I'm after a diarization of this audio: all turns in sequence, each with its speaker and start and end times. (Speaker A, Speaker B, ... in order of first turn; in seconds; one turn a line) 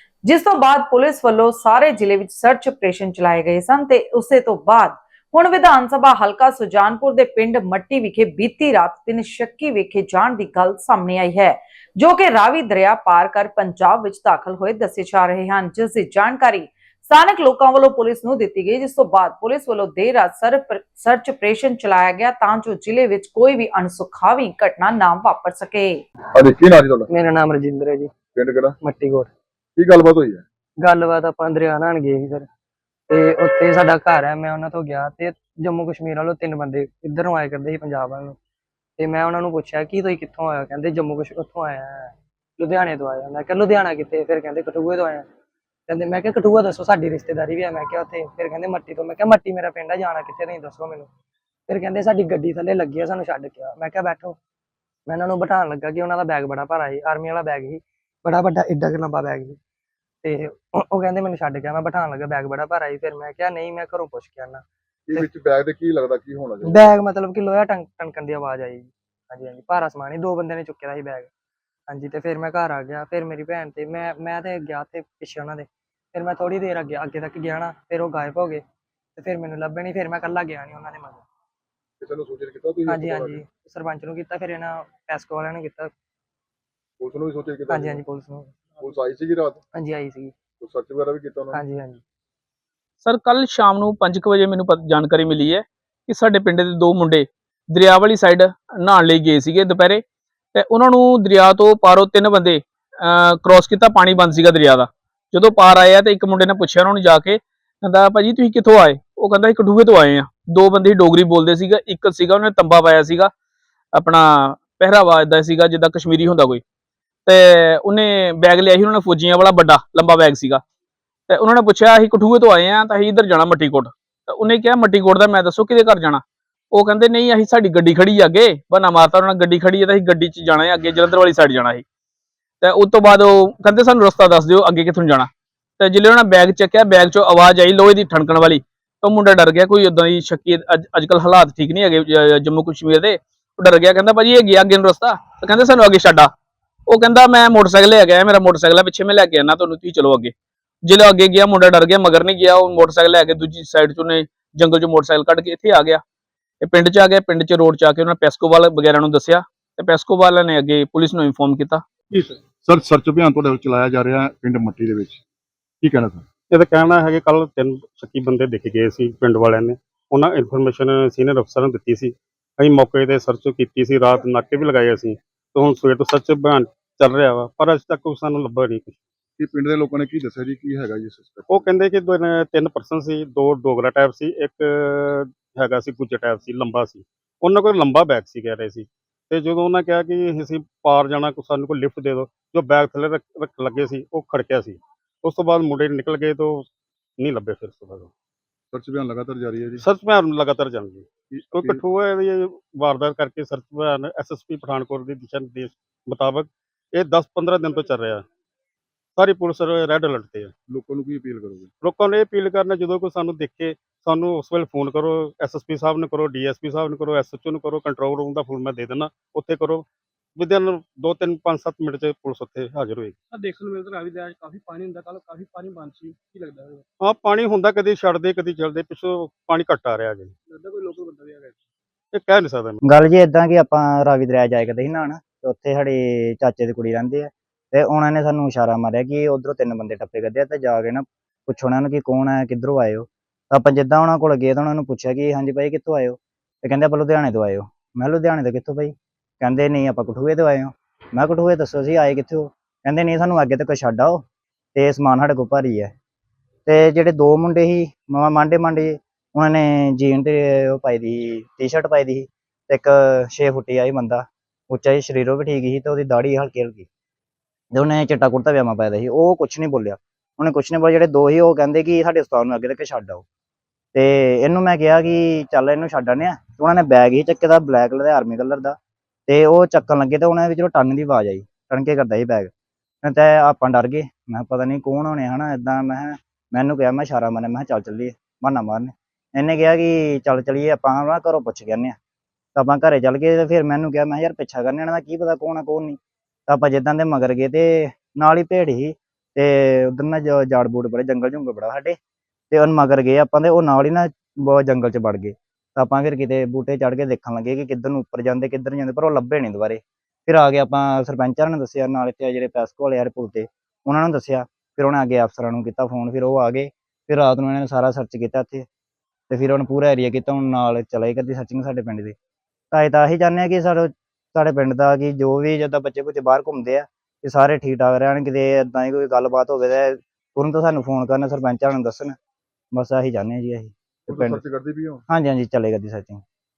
Speaker A: 0.2-26.0
Speaker B: 26.4-27.1
Speaker C: 27.1-28.2
Speaker B: 28.3-28.8
Speaker C: 28.8-29.3
Speaker B: 29.8-30.4
Speaker C: 30.8-32.5
Speaker C: 33.1-38.4
Speaker C: 39.0-45.3
Speaker C: 45.9-51.1
Speaker C: 51.7-54.4
Speaker C: 55.1-59.6
Speaker C: 60.2-65.3
Speaker B: 65.1-67.0
Speaker C: 66.6-71.3
Speaker C: 71.9-78.6
Speaker C: 79.2-81.2
Speaker B: 82.0-83.4
Speaker C: 82.9-85.9
Speaker B: 87.0-88.0
Speaker C: 87.7-88.5
Speaker B: 88.8-89.6
Speaker C: 89.7-90.3
Speaker B: 90.6-91.6
Speaker C: 91.5-92.0
Speaker D: 93.0-100.0
Speaker D: 100.5-113.3
Speaker D: 113.9-116.6
Speaker D: 117.3-120.6
Speaker D: 121.3-131.8
Speaker D: 132.6-146.3
Speaker D: 146.9-150.3
Speaker D: 150.8-156.0
Speaker D: 156.6-161.8
Speaker B: 162.1-165.2
Speaker B: 165.8-166.3
Speaker E: 166.5-179.0
Speaker B: 179.4-181.7
Speaker E: 181.5-196.7
Speaker E: 197.2-198.1
Speaker B: 198.7-199.8
Speaker E: 199.8-208.2
Speaker B: 201.3-201.8
Speaker E: 209.2-210.5
Speaker B: 210.7-211.7
Speaker E: 211.8-223.2
Speaker F: 223.3-226.8
Speaker E: 227.0-230.3
Speaker F: 230.5-231.6
Speaker E: 232.1-232.8
Speaker G: 232.8-255.9
Speaker G: 256.7-266.9
Speaker G: 267.7-273.2
Speaker G: 273.9-282.5
Speaker G: 283.0-292.0
Speaker G: 292.6-302.0
Speaker G: 302.5-318.7
Speaker G: 319.3-322.2
Speaker G: 322.7-332.2
Speaker G: 332.7-334.4
Speaker B: 334.1-335.0
Speaker G: 335.1-336.2